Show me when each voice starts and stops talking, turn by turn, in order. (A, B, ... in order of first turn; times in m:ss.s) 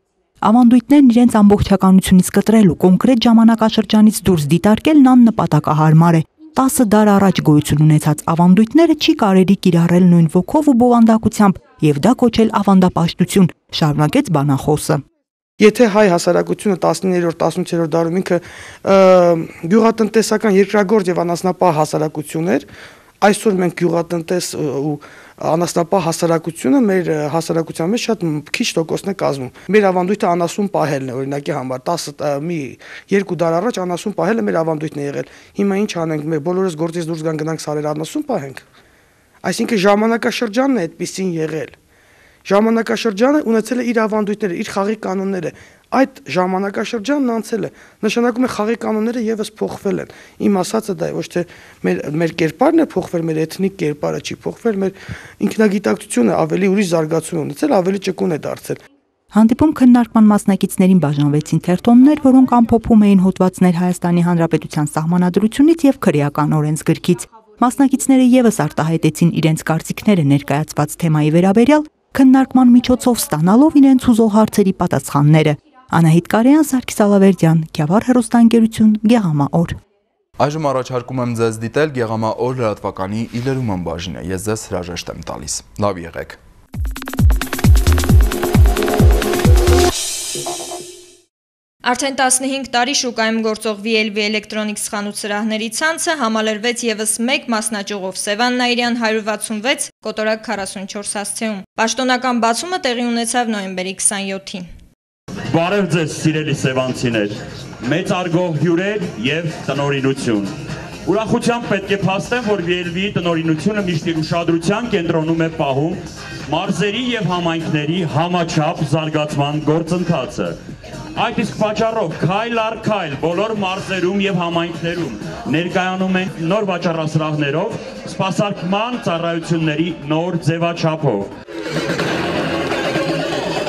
0:00.4-0:15.0 A
0:15.6-0:22.6 B
0:23.2-0:38.6 B
0:39.4-0:41.7 B
0:42.4-0:58.8 B
0:59.3-1:19.8 A
1:20.4-1:26.4 C
1:31.8-1:44.7 D
1:45.5-1:50.5 E
1:51.0-2:00.6 E
2:01.1-2:11.3 E